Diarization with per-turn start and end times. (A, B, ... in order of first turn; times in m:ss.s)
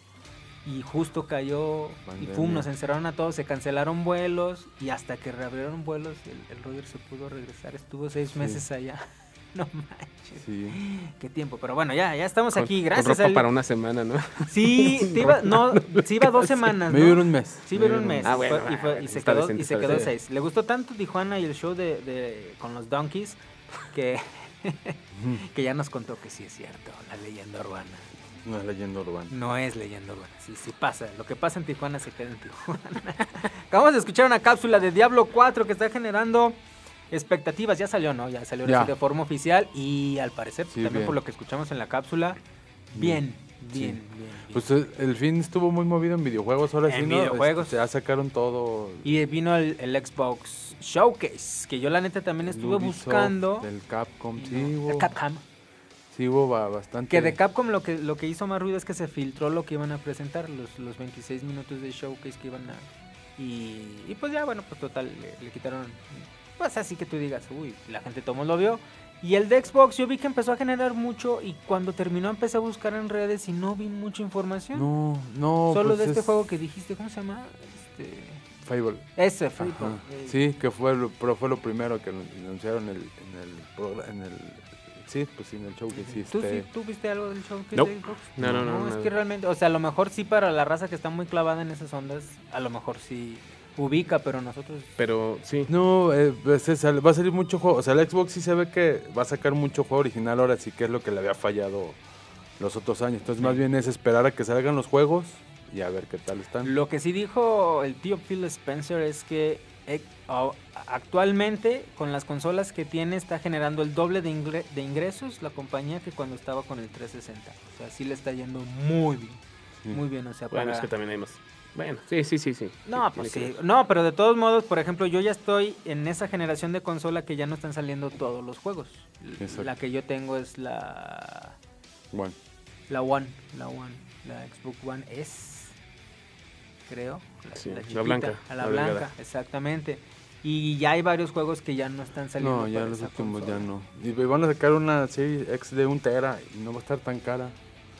0:00.6-0:13.4 A
0:02.1-0:02.6 B
0:10.4-0:10.8 B
0:12.5-0:16.5 C
0:14.5-0:23.4 A
0:16.9-0:18.4 B
0:18.2-0:20.1 C
0:23.9-0:28.0 A
0:28.4-0:29.3 B
0:29.3-0:36.6 A
0:37.1-0:42.4 A
0:38.6-0:38.9 B
0:40.7-0:41.2 B
0:42.9-0:44.6 A
0:42.9-0:43.2 B
0:43.7-0:44.0 B
0:44.5-0:49.0 B
0:46.8-0:47.7 A
0:49.0-0:53.7 A
0:52.5-0:55.1 B
0:54.4-0:55.4 A
0:56.1-0:57.4 B
0:57.1-1:14.9 A
1:14.7-1:16.2 B
1:15.7-1:18.4 A
1:18.6-1:19.1 B
1:19.2-1:20.4 A
1:19.6-1:26.7 B
1:26.0-1:34.9 A
1:27.7-1:29.1 C
1:28.4-1:28.6 B
1:35.0-1:35.7 C
1:35.7-1:42.0 B
1:42.6-1:46.7 B
1:46.6-2:00.9 A
2:00.5-2:03.5 C
2:02.9-2:11.6 A
2:09.4-2:09.7 B
2:12.9-2:15.7 A
2:16.9-2:23.7 A
2:17.5-2:19.1 C
2:22.4-2:27.6 B